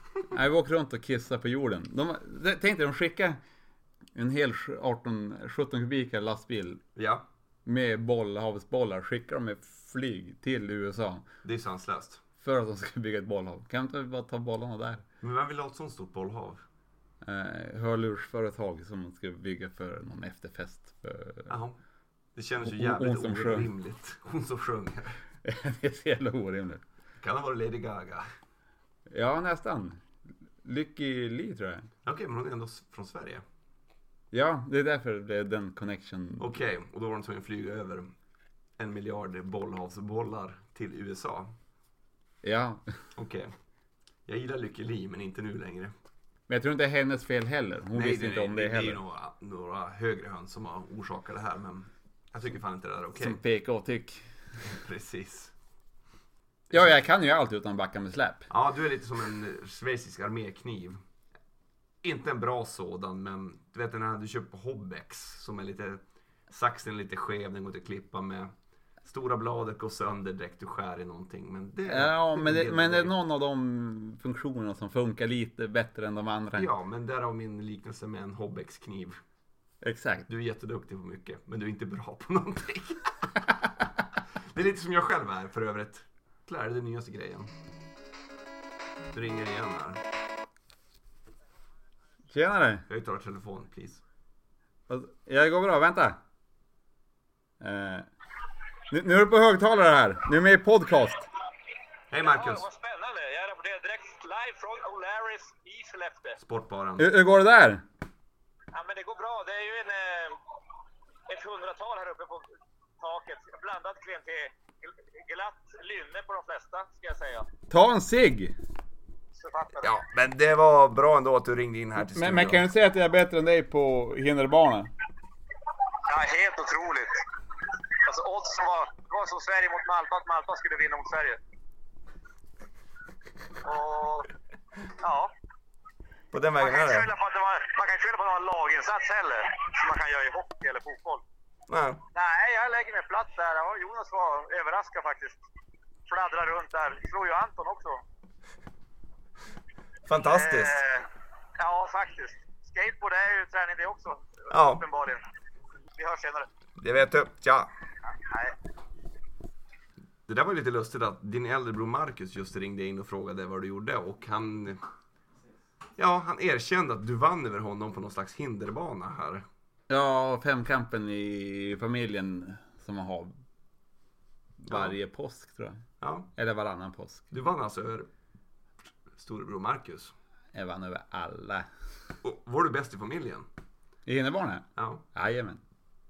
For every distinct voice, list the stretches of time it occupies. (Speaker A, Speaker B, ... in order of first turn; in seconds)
Speaker A: 0.3-3.4, 4.2-6.8, 7.7-11.2, 12.4-15.0, 17.2-21.5, 22.6-23.7, 25.4-26.8, 29.1-30.0, 30.6-31.9, 34.3-36.5, 42.4-42.9, 46.5-49.0, 53.2-54.2, 56.7-58.5, 71.9-76.7, 79.8-80.3, 92.3-92.8, 94.9-96.2, 97.6-98.1, 98.9-101.3, 107.0-107.8, 117.7-118.6, 122.0-124.9, 169.9-173.3, 174.6-175.8, 176.3-177.3, 180.5-181.7, 184.1-185.6
Speaker B: 7.0-7.2, 11.4-12.2, 15.2-16.6, 21.5-21.8, 22.4-25.2, 27.2-28.3, 32.0-33.4, 36.4-38.1, 38.8-41.5, 43.2-43.5, 44.3-45.9, 47.9-53.4, 54.6-55.5, 58.5-61.0, 62.0-68.5, 69.0-73.1, 76.5-79.2, 80.3-83.1, 84.5-87.5, 89.1-90.0, 92.9-94.0, 102.1-102.7, 106.4-107.1, 119.8-122.6, 136.3-137.1, 141.7-142.0, 150.1-150.8, 154.5-154.8, 156.8-157.7, 160.3-164.8, 166.0-169.4, 174.7-174.9, 176.0-176.3, 177.3-178.1, 179.2-180.1, 182.2-183.5, 184.8-185.0
Speaker C: 102.2-106.4, 108.7-110.4, 111.3-112.5, 113.0-117.5, 119.3-119.9, 126.1-127.2, 128.0-131.4, 133.6-134.3, 135.0-135.3, 136.6-141.2, 142.2-145.4, 146.1-148.0, 150.2-151.1, 151.6-155.2, 155.9-156.5, 158.1-158.6